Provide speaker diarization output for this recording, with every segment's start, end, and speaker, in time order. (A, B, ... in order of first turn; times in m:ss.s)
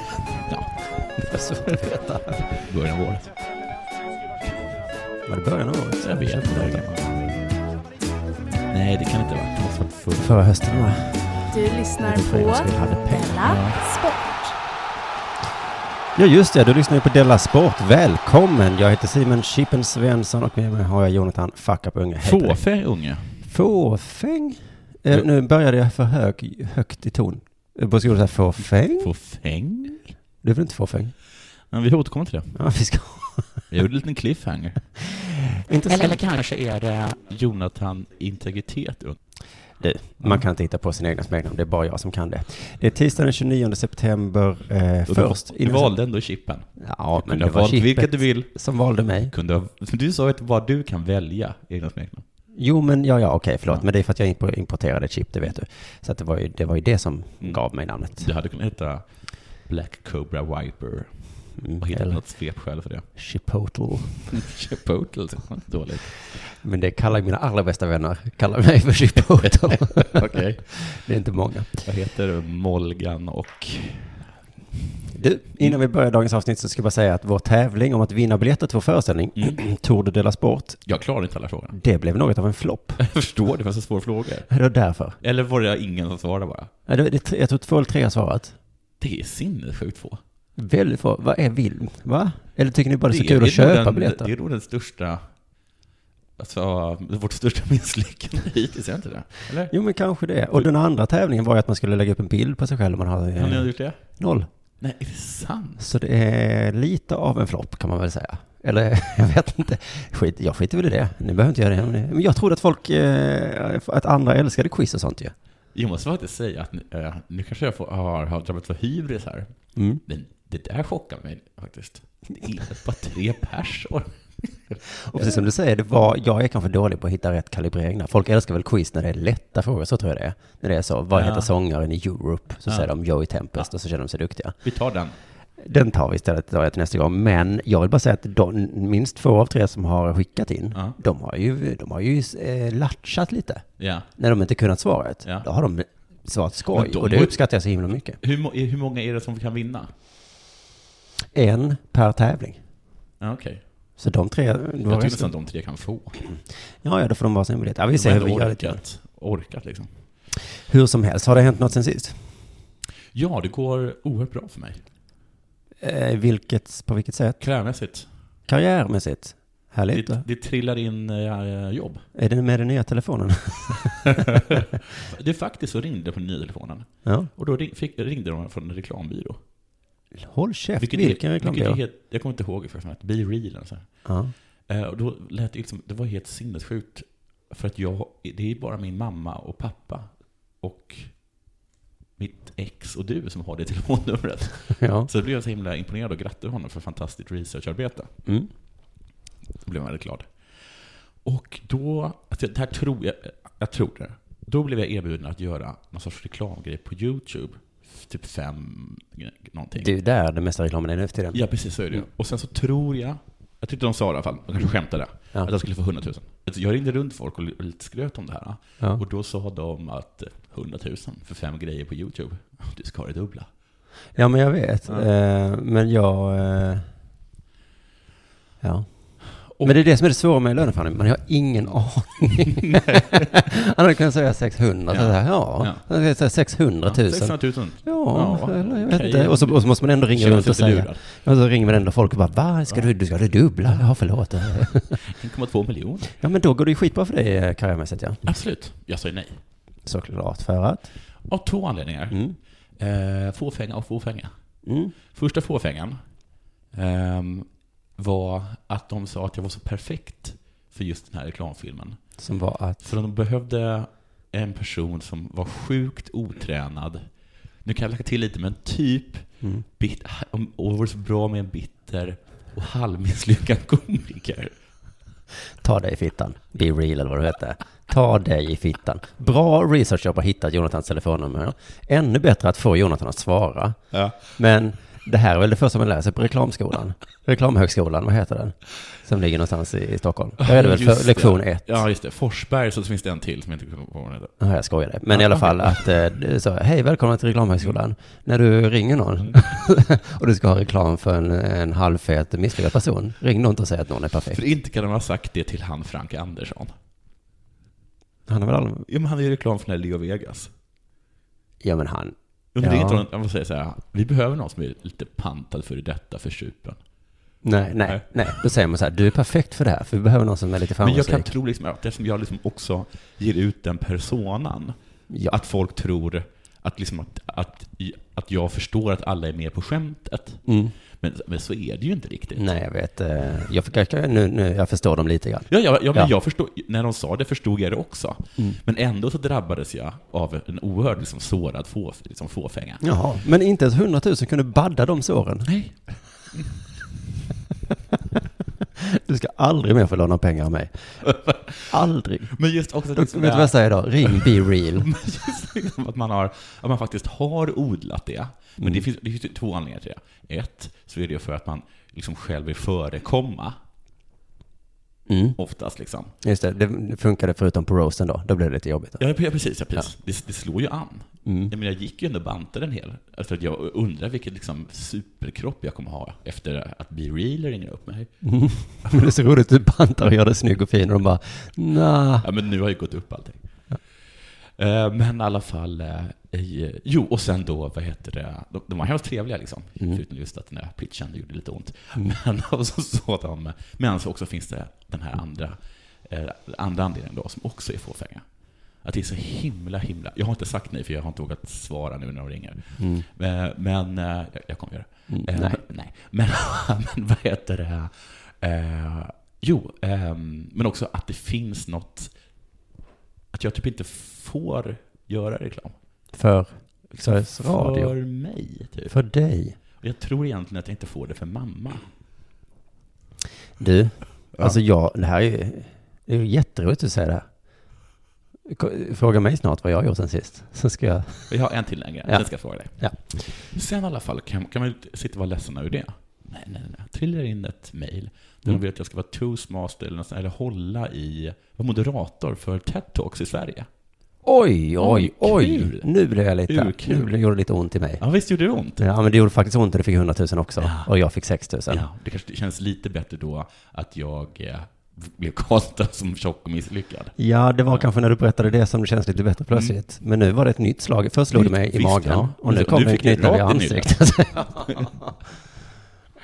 0:00.5-0:00.7 A
0:01.2-0:02.6 B
0:02.6-0:03.3 A
0:05.3-0:06.9 B
0:06.0-0:07.3 A
0:08.7-0:10.6 A
0:10.2-0:13.7 B
0:11.5-0:14.5 C
0:13.4-0:13.8 A
0:16.2-0:22.6 B
0:22.2-0:23.3 A
0:23.4-0:29.1 B
0:29.0-0:30.0 A
0:30.4-0:31.1 B
0:31.7-0:32.5 A
0:32.5-0:33.6 B
0:33.7-0:34.8 A
0:35.5-0:36.2 B
0:35.9-0:39.2 A
0:39.8-0:45.9 B
0:45.1-0:48.5 A
0:46.8-0:49.3 B
0:49.3-0:52.2 A
0:52.6-0:58.2 B
0:58.2-0:59.0 A
0:59.6-1:01.1 A
1:01.6-1:02.2 B
1:01.8-1:03.0 A
1:03.2-1:04.3 B
1:04.3-1:06.1 A
1:06.3-1:11.8 B
1:09.4-1:10.7 A
1:11.8-1:14.2 A
1:15.1-1:20.8 B
1:20.9-1:21.8 A
1:21.7-1:23.0 B
1:23.0-1:24.5 A
1:24.5-1:25.2 B
1:25.2-1:26.7 A
1:26.9-1:28.6 B
1:29.0-1:30.2 A
1:30.6-1:34.3 B
1:33.1-1:35.2 A
1:36.4-1:39.7 A
1:39.7-1:44.5 B
1:43.4-1:44.0 A
1:44.8-1:45.8 A
1:45.8-1:55.3 B
1:55.7-1:59.5 A
1:59.8-2:00.0 B
2:00.1-2:05.4 A
2:05.0-2:14.6 B
2:11.1-2:11.5 A
2:14.6-2:15.1 A
2:15.6-2:23.6 B
2:23.8-2:24.1 A
2:24.2-2:28.2 B
2:26.7-2:27.4 A
2:28.2-2:29.9 A
2:31.3-2:32.6 B
2:33.2-2:33.6 A
2:34.0-2:35.3 B
2:34.9-2:36.2 A
2:36.8-2:38.8 B
2:38.0-2:39.9 A
2:40.7-2:42.2 B
2:43.1-2:44.8 A
2:45.8-2:47.4 B
2:47.4-2:48.1 A
2:48.5-2:50.2 B
2:49.9-2:52.0 A
2:52.2-2:54.8 B
2:54.0-2:59.4 A
2:57.0-2:57.3 B
3:00.2-3:01.8 B
3:00.8-3:03.9 A
3:04.0-3:04.3 B
3:04.7-3:11.1 A
3:12.2-3:18.1 A
3:14.8-3:15.1 B
3:19.6-3:20.3 A
3:21.2-3:29.9 A
3:29.8-3:31.4 B
3:31.3-3:43.5 A
3:44.2-3:46.9 B
3:48.6-4:05.0 B
3:52.9-3:53.2 A
3:54.9-3:55.8 A
3:56.8-4:01.0 A
4:05.1-4:06.2 A
4:06.2-4:08.2 B
4:08.2-4:09.3 A
4:09.9-4:10.9 B
4:11.3-4:12.2 A
4:12.1-4:12.4 B
4:12.8-4:14.3 A
4:14.7-4:15.0 B
4:15.1-4:16.0 A
4:16.7-4:22.0 A
4:22.2-4:22.8 B
4:22.8-4:27.0 A
4:27.6-4:29.2 A
4:29.8-4:34.5 A
4:35.6-4:43.8 B
4:43.9-4:44.2 A
4:44.3-4:51.8 B
4:50.4-4:54.3 A
4:54.4-5:04.4 B
4:55.1-4:55.7 A
5:04.3-5:06.7 A
5:08.3-5:08.8 B
5:08.9-5:10.5 A
5:11.6-5:13.0 B
5:12.5-5:16.8 A
5:17.4-5:21.3 B
5:20.8-5:30.4 A
5:30.4-5:30.7 B
5:31.0-5:32.4 A
5:32.4-5:36.1 B
5:35.5-5:42.8 A
5:42.8-5:45.5 B
5:45.4-5:45.7 A
5:48.8-5:51.0 B
5:51.0-5:51.6 A
5:51.6-5:52.3 B
5:52.3-6:03.6 A
5:52.9-5:54.9 B
6:05.1-6:05.4 B
6:05.4-6:06.1 A
6:06.2-6:09.0 B
6:09.0-6:18.1 A
6:11.2-6:11.5 B
6:18.2-6:22.2 B
6:22.2-6:23.4 A
6:24.6-6:38.2 A
6:38.8-6:52.1 A
6:42.8-6:43.0 B
6:45.1-6:45.6 B
6:53.3-6:55.8 A
6:56.1-6:57.9 B
6:56.9-6:58.9 A
6:58.9-6:59.6 B
6:59.8-7:01.9 A
7:03.6-7:07.2 B
7:08.5-7:11.3 B
7:11.3-7:23.7 A
7:24.2-7:28.0 B
7:24.8-7:25.9 A
7:26.5-7:27.1 A
7:28.0-7:28.8 A
7:28.8-7:31.8 B
7:30.6-7:30.9 A
7:31.7-7:37.1 A
7:37.2-7:45.1 B
7:41.3-7:44.9 A